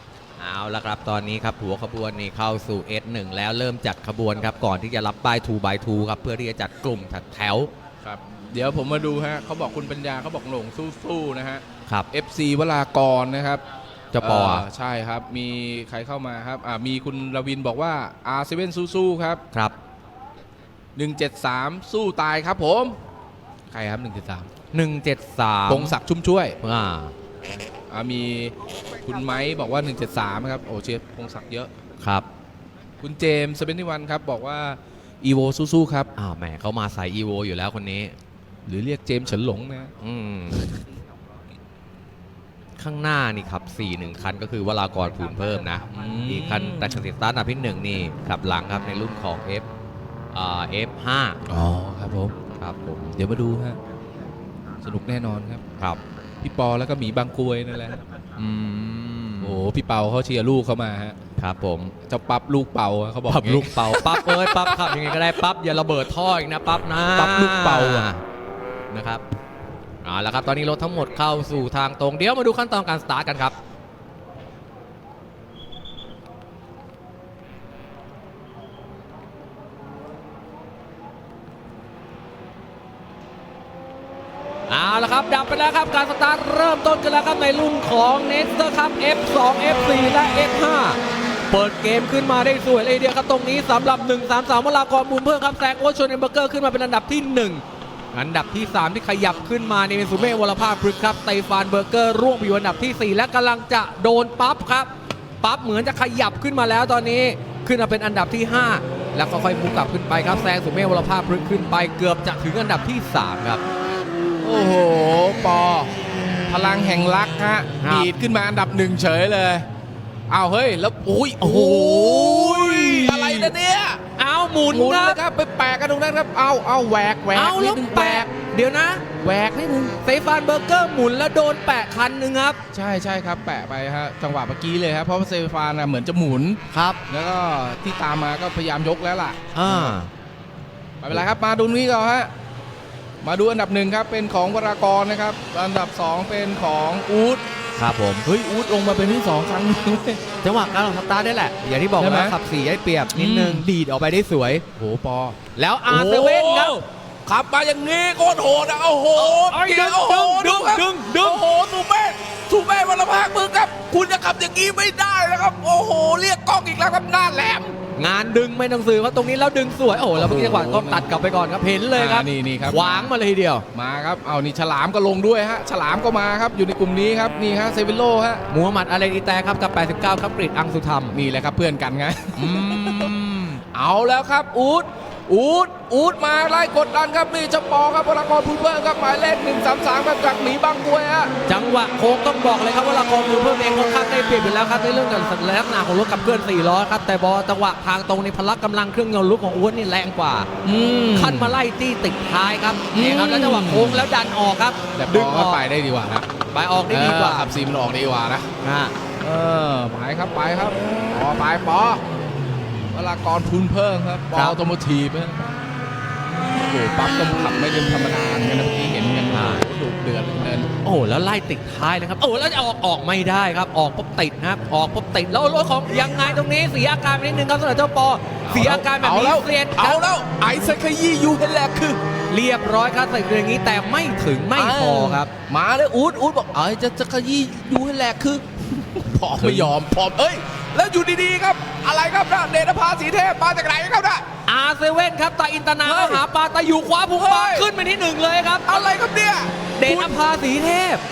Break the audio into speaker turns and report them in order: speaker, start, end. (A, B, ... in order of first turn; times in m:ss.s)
0:00.4-0:07.7 A
0:08.0-0:13.6 B
0:14.1-0:14.6 A
0:14.2-0:19.4 B
0:21.0-0:23.0 B
0:23.7-0:24.5 B
0:24.7-0:26.0 A
0:25.7-0:26.6 B
0:26.6-0:27.1 A
0:27.9-0:31.7 B
0:32.0-0:32.2 A
0:33.0-0:36.1 B
0:36.2-0:38.1 A
0:38.7-0:39.9 B
0:40.0-0:40.8 A
0:42.8-0:49.6 A
0:45.9-0:47.0 B
0:50.3-0:51.4 A
0:51.5-0:52.4 B
0:52.6-0:53.2 A
0:53.1-0:53.8 B
0:54.8-0:55.6 B
0:56.4-0:58.0 B
0:58.4-0:59.6 A
0:59.4-1:01.2 B
1:01.4-1:01.9 A
1:02.0-1:05.3 B
1:03.3-1:08.2 A
1:07.1-1:08.1 B
1:08.9-1:09.2 A
1:10.0-1:13.6 A
1:24.7-1:44.9 A
1:45.4-1:53.6 A
1:54.4-1:55.9 B
1:56.5-1:59.6 B
1:57.8-1:58.1 A
2:00.3-2:04.0 B
2:01.4-2:03.5 A
2:04.2-2:05.2 A
2:04.7-2:08.3 B
2:07.3-2:09.2 A
2:09.2-2:09.9 B
2:09.9-2:12.6 A
2:12.7-2:20.0 B
2:16.7-2:17.0 A
2:19.5-2:20.1 A
2:21.0-2:22.3 B
2:23.2-2:27.4 B
2:27.8-2:28.3 A
2:28.2-2:30.2 B
2:30.4-2:34.6 A
2:32.0-2:32.4 B
2:33.1-2:33.7 B
2:34.8-2:47.8 B
2:35.5-2:36.8 A
2:39.2-2:41.4 A
2:47.9-2:53.6 A
2:50.1-2:51.0 B
2:51.9-2:53.1 B
2:53.7-2:58.4 B
2:58.5-3:01.2 A
3:01.1-3:03.1 B
3:02.4-3:03.6 A
3:03.7-3:11.3 B
3:11.5-3:20.5 A
3:20.6-3:21.6 B
3:21.1-3:25.6 A
3:22.9-3:24.1 B
3:25.0-3:26.2 B
3:26.5-3:27.5 A
3:26.9-3:28.5 B
3:28.6-3:28.9 A
3:29.2-3:32.0 B
3:32.9-3:35.6 B
3:36.6-3:40.7 B
3:39.3-3:39.6 A
3:40.8-3:50.0 A
3:48.4-3:52.0 B
3:52.3-3:55.3 A
3:54.5-4:04.2 B
3:59.4-3:59.7 A
4:04.5-4:08.8 A
4:05.8-4:06.2 B
4:07.1-4:07.7 B
4:08.6-4:10.2 B
4:09.8-4:11.0 A